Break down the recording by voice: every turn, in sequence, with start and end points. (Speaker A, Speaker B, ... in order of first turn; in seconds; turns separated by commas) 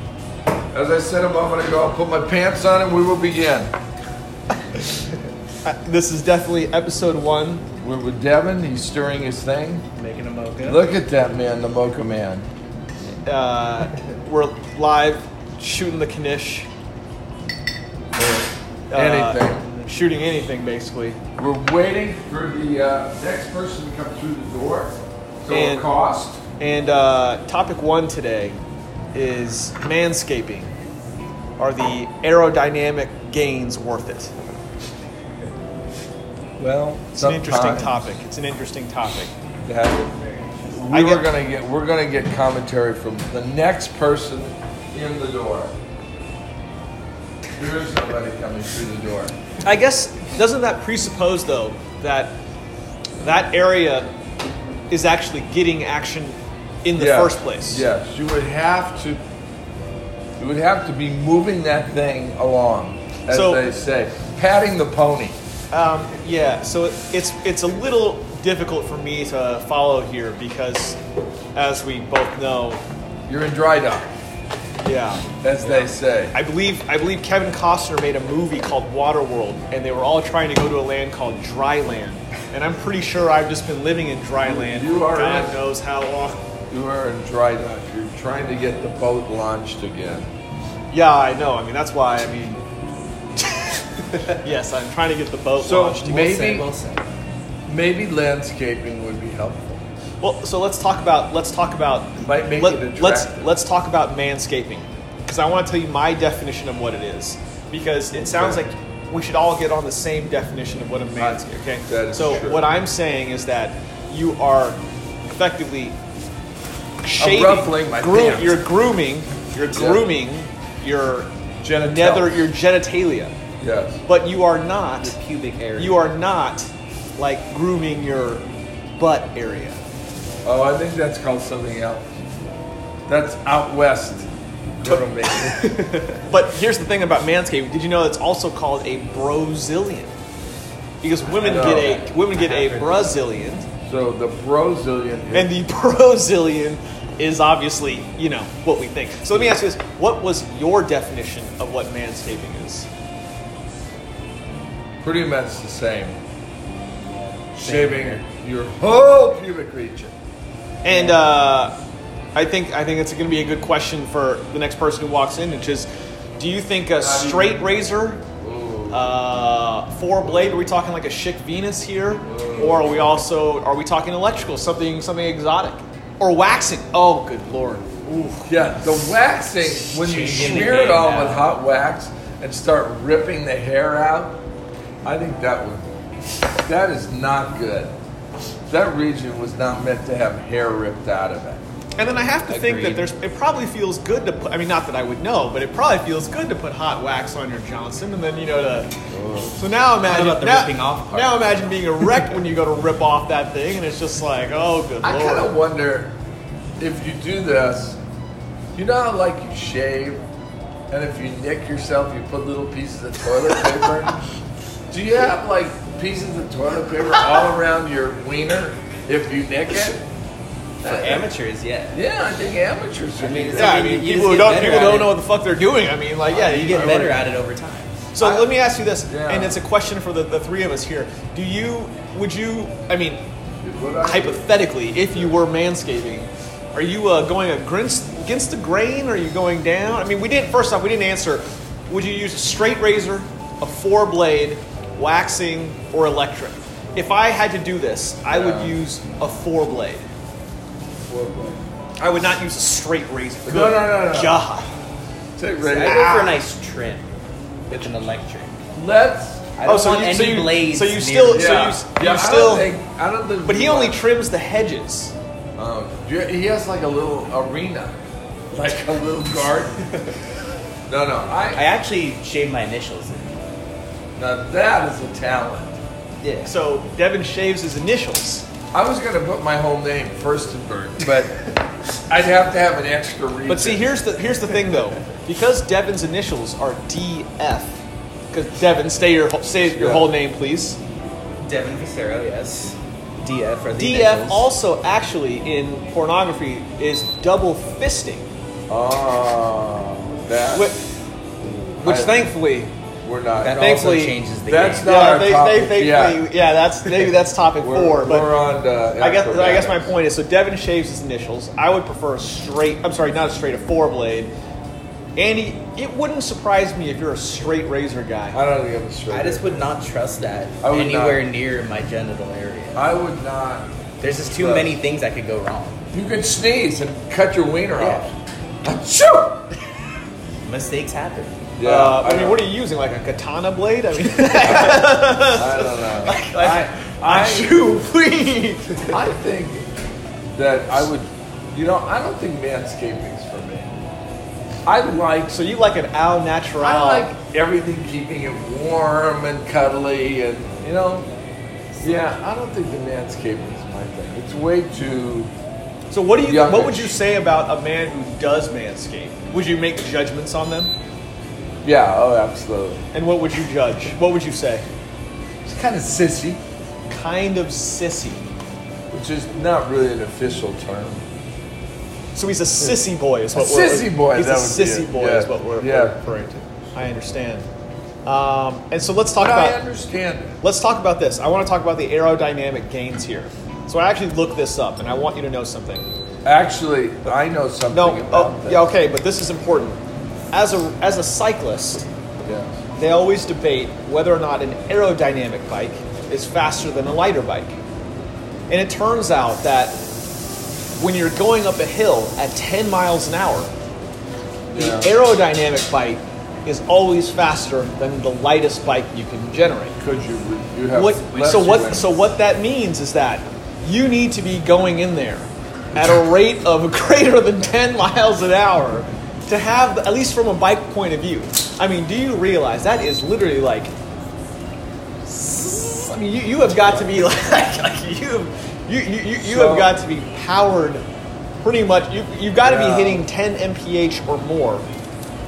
Speaker A: 0.7-3.7, Speaker B: 5.6-7.6, Speaker A: 7.8-9.8, Speaker C: 10.0-10.8, Speaker A: 10.6-12.5, Speaker B: 13.2-16.7, Speaker A: 18.2-19.6, Speaker B: 18.9-21.2, Speaker A: 21.4-26.4, Speaker B: 25.5-25.9, Speaker B: 26.6-28.6, Speaker B: 29.1-30.7, Speaker B: 31.6-34.3, Speaker A: 36.6-38.0, Speaker B: 37.1-39.3, Speaker A: 39.6-40.1, Speaker A: 40.7-45.7, Speaker B: 40.9-41.3, Speaker A: 47.5-49.3, Speaker B: 49.6-52.4, Speaker B: 53.2-54.1, Speaker B: 54.9-57.9, Speaker A: 57.0-59.2, Speaker A: 60.4-65.4, Speaker B: 63.3-63.6, Speaker B: 65.7-71.0, Speaker B: 71.5-72.8, Speaker A: 73.3-74.1, Speaker B: 74.8-75.8, Speaker A: 75.4-76.3, Speaker B: 76.3-86.4, Speaker A: 84.4-85.6, Speaker A: 86.7-90.3, Speaker B: 90.9-92.6, Speaker B: 93.5-96.4, Speaker A: 95.6-96.7, Speaker C: 96.1-97.0, Speaker A: 97.7-99.8, Speaker B: 100.2-114.8, Speaker A: 102.2-103.5, Speaker A: 108.1-108.6, Speaker A: 111.2-112.7, Speaker B: 115.3-116.0, Speaker B: 117.0-121.3, Speaker A: 117.2-118.6, Speaker A: 119.7-120.1, Speaker A: 121.6-122.4, Speaker B: 121.8-123.3, Speaker A: 123.6-124.0, Speaker B: 124.0-125.2, Speaker C: 125.0-126.1, Speaker B: 125.8-128.4, Speaker B: 129.0-129.8, Speaker A: 130.4-132.2, Speaker A: 133.1-135.7, Speaker B: 134.8-140.1, Speaker B: 141.0-143.7, Speaker C: 141.2-143.2, Speaker A: 141.4-142.0, Speaker A: 143.8-145.5, Speaker B: 145.3-152.9, Speaker A: 155.0-156.2, Speaker C: 157.4-158.2, Speaker A: 157.6-160.1, Speaker B: 160.8-161.7, Speaker B: 162.3-168.2, Speaker A: 167.0-167.8, Speaker A: 168.4-169.1, Speaker B: 168.9-178.5, Speaker A: 172.2-173.2, Speaker A: 178.4-184.4, Speaker C: 179.6-181.5, Speaker A: 185.0-185.9, Speaker A: 186.7-187.9, Speaker A: 188.7-191.6, Speaker B: 192.0-198.9, Speaker C: 192.5-193.1, Speaker A: 199.1-199.7, Speaker B: 199.5-205.5, Speaker C: 200.0-201.5, Speaker A: 205.0-206.1, Speaker A: 206.8-208.0, Speaker A: 208.7-210.2, Speaker A: 210.9-214.2, Speaker A: 214.9-220.0, Speaker A: 220.8-221.3, Speaker C: 220.8-222.0, Speaker A: 221.9-223.8, Speaker C: 223.2-225.2, Speaker B: 223.5-227.2, Speaker C: 226.3-228.4, Speaker A: 226.7-227.2, Speaker B: 228.1-233.2, Speaker A: 229.1-229.6, Speaker A: 233.6-234.5, Speaker B: 234.0-250.1, Speaker A: 248.3-248.8, Speaker A: 251.1-251.6, Speaker B: 252.0-254.7, Speaker A: 253.4-254.4, Speaker A: 255.3-256.1, Speaker C: 255.7-257.1, Speaker B: 255.7-256.4, Speaker C: 257.7-258.5, Speaker A: 258.7-259.5, Speaker C: 259.6-261.6, Speaker B: 259.6-262.7, Speaker A: 261.3-264.0, Speaker B: 263.4-265.1, Speaker A: 265.6-268.0, Speaker A: 268.5-269.9, Speaker A: 270.9-271.7, Speaker C: 271.5-273.4, Speaker A: 274.2-275.8, Speaker C: 276.2-276.5, Speaker B: 276.4-278.4, Speaker A: 278.7-281.4, Speaker A: 281.9-283.9, Speaker B: 283.5-287.8, Speaker B: 288.3-290.8, Speaker A: 289.7-290.1, Speaker C: 291.4-294.5, Speaker B: 293.8-298.2, Speaker A: 298.7-300.7, Speaker B: 300.5-300.8, Speaker A: 301.4-302.3, Speaker B: 301.8-302.7, Speaker A: 303.0-303.6, Speaker C: 303.4-304.9, Speaker B: 303.6-304.2, Speaker A: 304.5-306.2, Speaker B: 304.8-308.4, Speaker A: 307.6-309.9, Speaker B: 309.0-314.3, Speaker B: 315.1-318.4, Speaker A: 318.3-319.6, Speaker C: 319.1-322.9, Speaker A: 320.6-321.2, Speaker A: 322.7-323.7, Speaker C: 324.0-325.8, Speaker A: 324.2-324.8, Speaker A: 325.9-329.5, Speaker C: 327.8-328.1, Speaker C: 330.4-331.3, Speaker A: 331.6-332.4, Speaker B: 331.6-339.0, Speaker A: 335.3-337.6, Speaker A: 338.9-339.7, Speaker A: 340.3-343.8, Speaker A: 344.6-345.3, Speaker B: 345.3-347.1, Speaker A: 346.6-351.1, Speaker C: 351.8-352.0, Speaker A: 351.8-355.3, Speaker B: 355.9-360.7, Speaker A: 356.2-356.9, Speaker A: 361.6-362.8, Speaker B: 362.9-364.6, Speaker A: 365.4-366.4, Speaker B: 366.9-368.2, Speaker A: 368.9-371.0, Speaker B: 372.1-377.4, Speaker A: 373.3-376.0, Speaker B: 378.0-379.6, Speaker A: 379.2-380.4, Speaker B: 380.4-385.8, Speaker A: 386.2-388.7, Speaker B: 387.7-389.8, Speaker B: 390.3-391.9, Speaker A: 392.2-392.6, Speaker B: 392.8-397.5, Speaker B: 398.5-399.8, Speaker B: 400.8-403.5, Speaker A: 404.5-404.9, Speaker B: 404.5-409.8, Speaker A: 409.8-411.9, Speaker B: 410.7-423.7, Speaker B: 425.0-430.8, Speaker A: 429.2-429.7, Speaker B: 431.4-434.6, Speaker A: 432.4-433.1